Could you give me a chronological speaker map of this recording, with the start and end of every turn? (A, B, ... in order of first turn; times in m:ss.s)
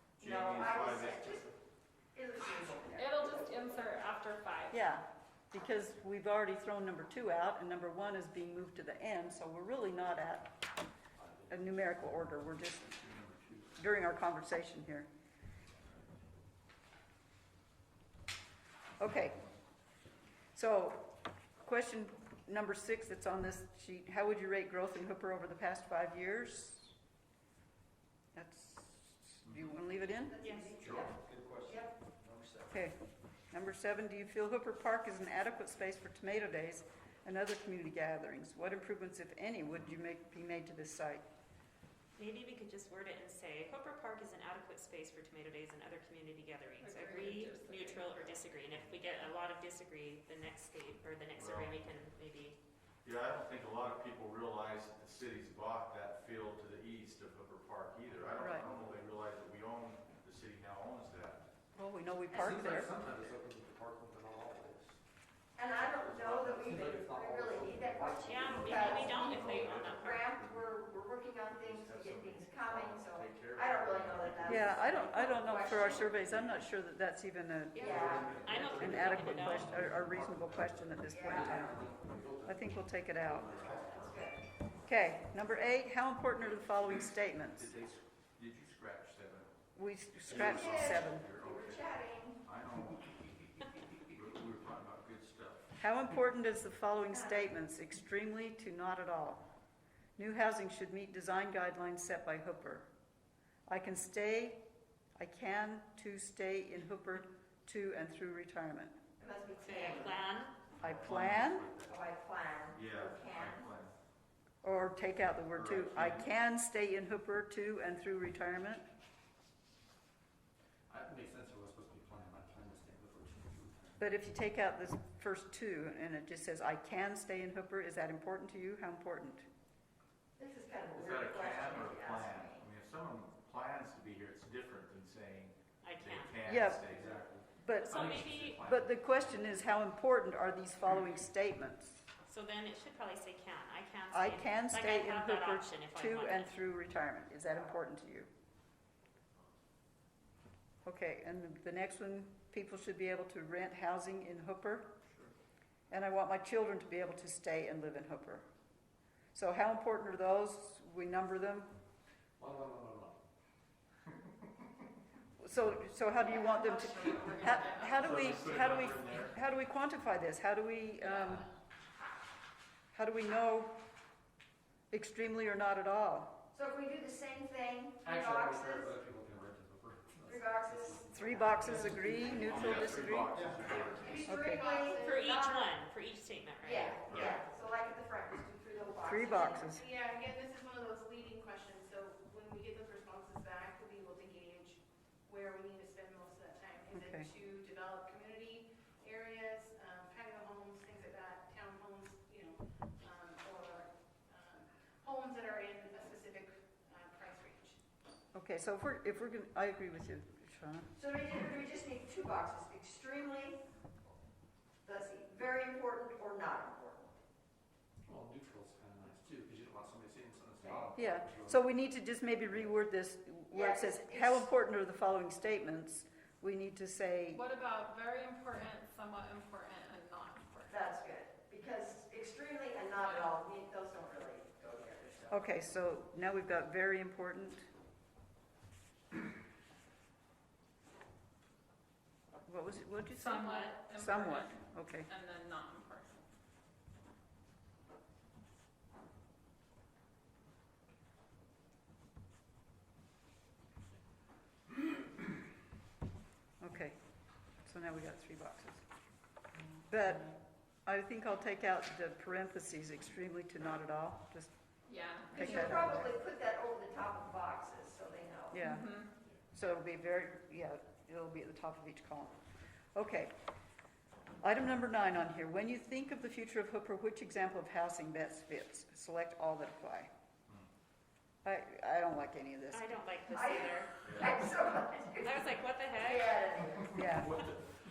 0:00.2-0:01.5 A
0:00.2-0:01.5 B
0:02.1-0:03.5 A
0:02.9-0:04.8 C
0:04.7-0:10.6 D
0:11.5-0:13.0 D
0:12.8-0:13.8 B
0:13.8-0:15.1 D
0:19.0-0:19.4 D
0:20.5-0:26.9 D
0:28.3-0:30.5 D
0:30.2-0:31.9 A
0:30.4-0:30.8 E
0:30.8-0:31.1 B
0:30.9-0:32.7 F
0:32.7-0:33.0 D
0:33.5-0:41.2 D
0:42.2-0:52.6 E
0:46.8-0:48.4 C
0:51.4-0:51.9 B
0:53.0-1:01.4 B
0:58.2-0:59.0 F
0:58.4-0:58.7 D
1:01.7-1:02.9 D
1:02.3-1:05.0 F
1:05.6-1:16.2 A
1:05.8-1:09.3 F
1:08.2-1:10.3 E
1:09.2-1:10.7 B
1:11.5-1:16.6 B
1:14.5-1:21.9 D
1:17.7-1:18.4 A
1:17.7-1:24.3 F
1:18.4-1:19.8 E
1:21.1-1:21.8 A
1:22.4-1:23.6 D
1:23.6-1:24.4 A
1:24.8-1:27.7 D
1:27.5-1:29.6 B
1:29.8-1:31.3 D
1:30.2-1:31.8 B
1:30.3-1:32.4 A
1:32.4-1:35.7 B
1:35.8-1:39.4 D
1:37.1-1:37.5 A
1:40.2-1:42.9 D
1:43.7-1:44.6 D
1:45.2-1:49.0 D
1:49.2-1:50.2 A
1:49.6-1:50.6 E
1:50.8-1:52.0 B
1:50.8-1:51.7 D
1:51.8-1:53.7 A
1:52.7-1:53.9 B
1:54.6-1:58.8 D
1:55.5-1:56.3 B
2:00.9-2:04.0 F
2:04.0-2:09.4 D
2:10.4-2:12.6 A
2:10.9-2:17.2 B
2:15.8-2:16.4 E
2:16.4-2:17.0 D
2:16.8-2:18.8 F
2:17.6-2:22.0 D
2:17.7-2:18.6 E
2:22.3-2:26.5 E
2:24.1-2:28.3 D
2:30.8-2:34.9 D
2:35.9-2:38.4 D
2:39.3-2:41.7 D
2:42.4-2:43.2 F
2:45.4-2:51.5 D
2:46.2-2:48.4 C
2:48.0-2:49.3 B
2:51.1-2:51.4 C
2:52.9-2:53.8 D
2:54.9-2:56.4 D
2:56.5-2:58.9 A
2:58.0-3:04.1 F
3:00.2-3:05.7 A
3:01.1-3:03.4 D
3:02.3-3:04.2 B
3:03.6-3:05.4 G
3:04.2-3:04.6 D
3:05.0-3:07.4 E
3:06.6-3:09.7 A
3:07.1-3:07.4 B
3:09.0-3:09.9 D
3:09.6-3:27.8 G
3:16.9-3:17.3 D
3:28.3-3:30.9 D
3:31.0-3:33.6 A
3:34.8-3:37.1 A
3:38.0-3:41.6 F
3:40.9-3:47.4 D
3:43.5-3:44.5 A
3:47.3-3:50.8 C
3:50.7-3:55.5 A
3:53.0-3:53.3 C
3:55.3-3:57.7 D
4:02.4-4:05.1 D
4:03.1-4:06.2 C
4:03.4-4:03.7 E
4:16.6-4:17.0 D
4:17.6-4:18.8 D
4:19.9-4:24.5 D
4:24.9-4:25.9 C
4:25.3-4:26.0 D
4:25.3-4:28.7 A
4:28.5-4:32.3 D
4:28.6-4:29.1 C
4:32.9-4:33.3 D
4:34.4-4:40.1 D
4:41.4-4:42.8 D
4:42.7-4:43.9 E
4:43.3-4:47.0 A
4:44.0-4:44.4 B
4:45.2-4:46.5 E
4:46.9-4:47.3 D
4:47.0-4:47.6 B